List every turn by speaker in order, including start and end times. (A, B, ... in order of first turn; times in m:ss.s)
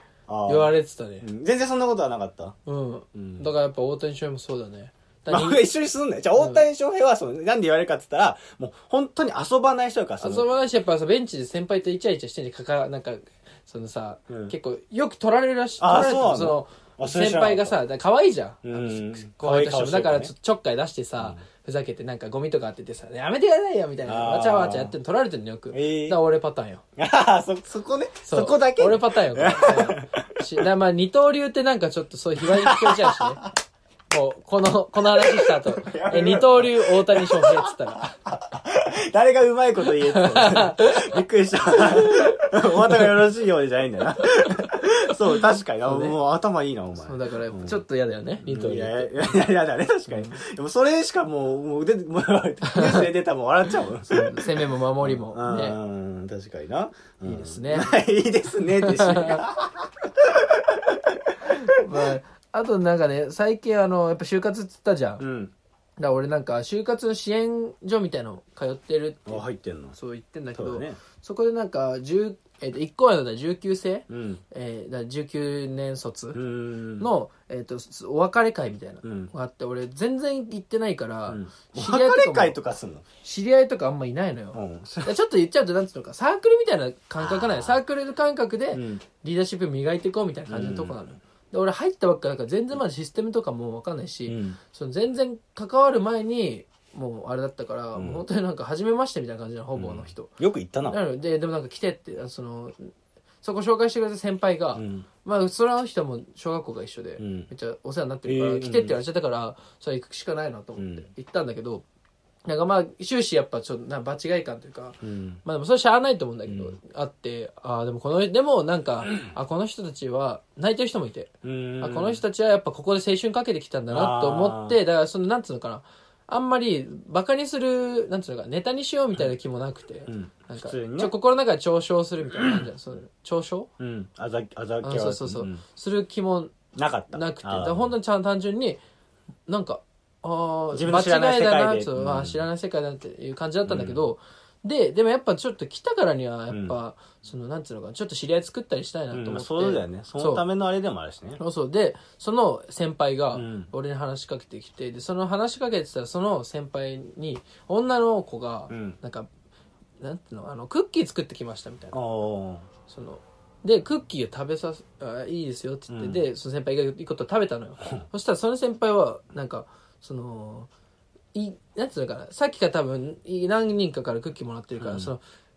0:00.3-0:02.6 A
0:00.4-0:01.2 B
0:02.6-0:05.6 B
0:03.1-0:03.5 A
0:05.3-0:10.4 A
0:06.4-0:06.6 B
0:10.2-0:26.8 B
0:14.3-0:14.5 A
0:15.8-0:17.8 A
0:18.6-0:20.3 A
0:21.2-0:21.4 A
0:24.0-0:24.9 A
0:25.7-0:26.2 A
0:27.0-0:30.4 A
0:28.2-0:33.4 B
0:32.4-0:33.4 A
0:34.1-0:38.2 B
0:35.2-0:37.7 A
0:38.2-0:47.8 A
0:40.1-0:41.2 B
0:41.7-0:42.3 B
0:45.8-0:46.2 B
0:47.0-0:49.2 B
0:48.4-1:02.0 A
0:52.7-0:53.1 B
0:54.1-0:55.8 B
0:57.2-0:57.9 B
0:58.8-0:59.4 B
1:01.7-1:05.2 B
1:05.2-1:05.5 A
1:06.0-1:16.4 B
1:09.3-1:10.0 A
1:10.5-1:11.0 A
1:14.1-1:14.4 A
1:16.3-1:17.1 A
1:17.0-1:22.6 B
1:19.0-1:19.3 A
1:21.3-1:23.0 A
1:23.2-1:40.3 B
1:24.5-1:25.1 A
1:27.2-1:27.8 A
1:28.7-1:29.0 A
1:30.5-1:31.0 A
1:34.2-1:34.6 A
1:38.0-1:38.2 A
1:39.7-1:41.0 A
1:40.8-1:42.9 B
1:43.4-1:51.8 B
1:44.7-1:45.1 A
1:47.2-1:47.5 A
1:48.2-1:49.0 A
1:50.8-1:51.1 A
1:52.4-2:13.7 B
1:55.0-1:55.4 A
1:56.5-1:56.8 A
2:01.4-2:02.2 A
2:03.9-2:04.8 A
2:10.1-2:11.1 A
2:12.3-2:12.6 A
2:13.8-2:15.6 A
2:14.8-2:16.6 B
2:16.8-2:17.9 A
2:17.1-2:18.8 B
2:19.5-2:30.4 B
2:20.7-2:22.4 A
2:23.6-2:24.0 A
2:26.5-2:26.8 A
2:29.1-2:31.4 A
2:31.4-2:39.3 B
2:33.3-2:33.7 A
2:38.7-2:39.0 A
2:40.0-2:42.0 B
2:41.9-2:42.7 A
2:42.9-2:50.7 B
2:45.9-2:46.2 A
2:51.3-2:55.2 B
2:54.8-2:55.1 A